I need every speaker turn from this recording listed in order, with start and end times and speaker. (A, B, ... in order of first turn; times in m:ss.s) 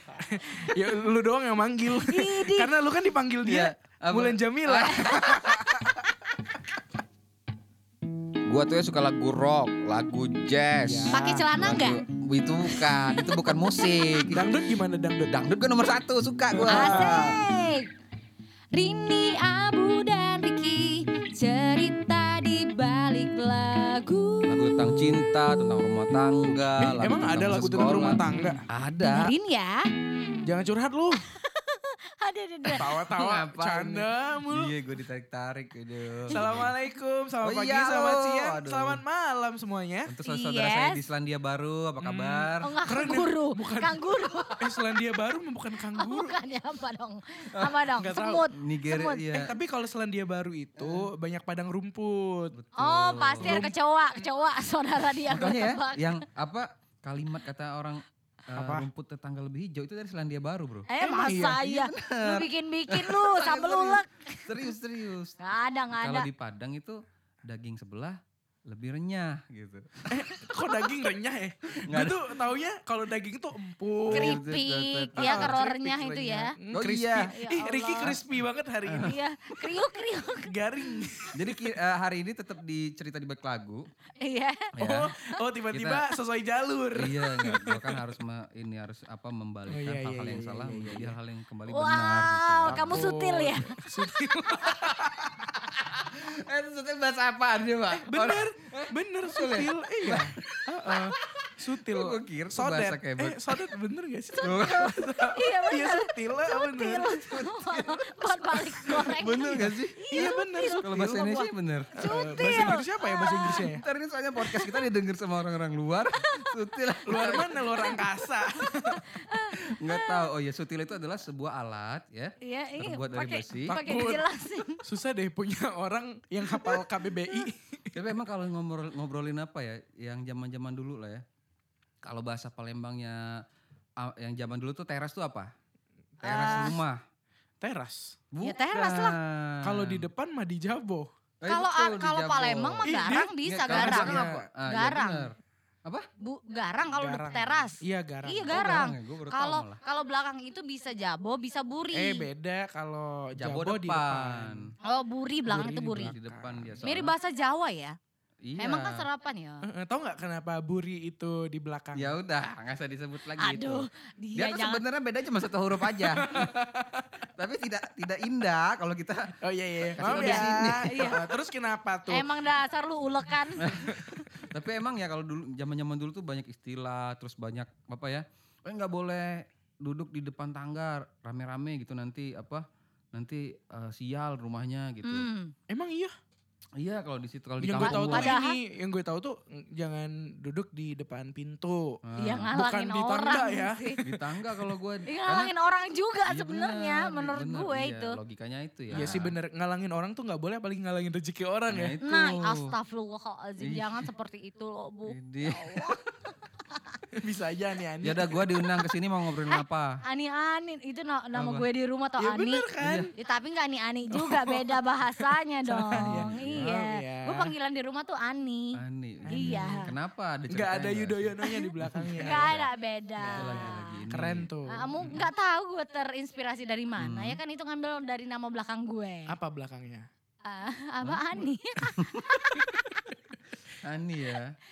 0:00.2-0:05.9 A
0:02.0-0:02.7 B
0:03.4-0:05.8 C
0:08.4-0:14.5 C
0:10.8-0:11.5 A
0:11.1-0:12.0 B
0:14.3-0:15.5 A
0:15.4-0:17.4 C
0:16.5-0:17.4 A
0:16.7-0:17.9 B
0:18.7-0:25.2 B
0:24.4-0:29.3 C
0:26.8-0:28.6 A
0:29.1-0:30.4 B
0:30.4-0:31.3 A
0:31.3-0:32.9 B
0:32.7-0:34.7 A
0:32.9-0:36.7 C
0:36.3-0:36.7 B
0:36.3-0:40.1 A
0:37.4-0:39.0 C
0:40.1-0:42.7 C
0:40.2-0:41.0 B
0:42.0-0:44.0 A
0:42.6-0:44.6 B
0:44.6-0:46.3 A
0:46.0-0:49.4 B
0:47.5-0:47.8 C
0:48.0-0:48.5 A
0:48.5-0:49.5 C
0:49.3-0:52.6 A
0:50.8-0:51.1 C
0:52.5-0:53.7 C
0:52.8-0:56.2 B
0:53.4-0:53.7 A
0:55.3-1:05.4 C
0:58.5-0:58.9 A
1:00.9-1:04.7 B
1:01.0-1:01.6 A
1:05.4-1:06.3 B
1:05.9-1:10.3 C
1:10.1-1:14.4 A
1:11.8-1:12.2 C
1:14.1-1:15.6 C
1:14.1-1:16.6 B
1:15.2-1:19.2 A
1:16.7-1:17.4 C
1:17.3-1:18.2 B
1:18.8-1:19.2 C
1:19.0-1:20.6 B
1:20.5-1:21.7 A
1:21.3-1:23.9 C
1:24.2-1:24.7 B
1:24.8-1:25.1 C
1:24.8-1:28.1 A
1:25.7-1:26.1 C
1:26.9-1:33.1 C
1:29.7-1:31.2 A
1:31.7-1:33.8 B
1:32.6-1:35.3 A
1:34.6-1:43.5 C
1:37.9-1:47.2 A
1:44.4-1:45.0 C
1:45.3-1:53.6 B
1:47.1-1:52.1 C
1:50.1-1:51.3 A
1:52.0-1:53.8 A
1:53.5-1:58.0 C
1:54.4-1:54.8 B
1:57.0-1:59.0 A
1:57.5-2:00.3 B
1:59.7-2:03.8 C
2:02.4-2:04.8 B
2:03.7-2:08.0 A
2:06.5-2:06.8 C
2:07.9-2:11.2 C
2:12.0-2:13.4 C
2:14.0-2:15.5 C
2:16.2-2:16.7 A
2:16.2-2:16.8 B
2:16.2-2:17.0 C
2:17.6-2:18.2 A
2:18.3-2:20.1 C
2:18.4-2:19.2 B
2:19.6-2:21.1 A
2:21.4-2:26.1 C
2:21.4-2:25.3 B
2:22.8-2:24.5 A
2:26.2-2:32.3 B
2:26.9-2:28.9 A
2:28.5-2:29.8 C
2:31.9-2:34.7 A
2:33.4-2:34.7 C
2:34.8-2:36.1 B
2:35.5-2:36.8 A
2:35.5-2:37.1 C
2:36.8-2:38.0 B
2:38.4-2:39.0 C
2:38.6-2:39.6 B
2:39.6-2:42.1 A
2:41.9-2:46.5 C
2:43.4-2:44.8 B
2:45.9-2:47.0 A
2:47.4-2:49.3 C
2:49.4-2:52.3 A
2:49.9-2:51.2 C
2:50.0-2:51.2 B
2:52.1-2:53.7 B
2:53.6-3:05.2 C
2:53.7-2:54.0 A
3:05.0-3:05.5 B
3:05.7-3:06.1 A
3:06.8-3:08.4 C
3:07.6-3:12.0 A
3:07.7-3:08.6 B
3:12.0-3:12.5 C
3:12.2-3:14.0 B
3:12.5-3:14.2 A
3:14.0-3:15.5 C
3:15.0-3:18.2 B
3:16.3-3:19.3 C
3:18.9-3:22.0 A
3:21.7-3:22.7 C
3:22.0-3:25.9 B
3:23.6-3:24.1 C
3:25.1-3:26.0 C
3:27.2-3:28.4 A
3:28.0-3:30.0 C
3:29.5-3:38.8 B
3:31.3-3:31.6 C
3:32.2-3:33.1 A
3:32.8-3:33.1 C
3:34.1-3:37.5 A
3:35.9-3:36.7 C
3:38.7-3:42.7 C
3:39.3-3:39.9 A
3:39.3-3:39.9 B
3:40.5-3:42.6 A
3:42.2-3:44.0 B
3:43.2-3:44.9 A
3:43.2-3:45.3 C
3:44.7-3:49.4 B
3:47.0-3:47.4 C
3:49.3-3:50.1 A
3:50.4-3:51.9 B
3:51.0-3:52.7 C
3:53.8-3:54.5 C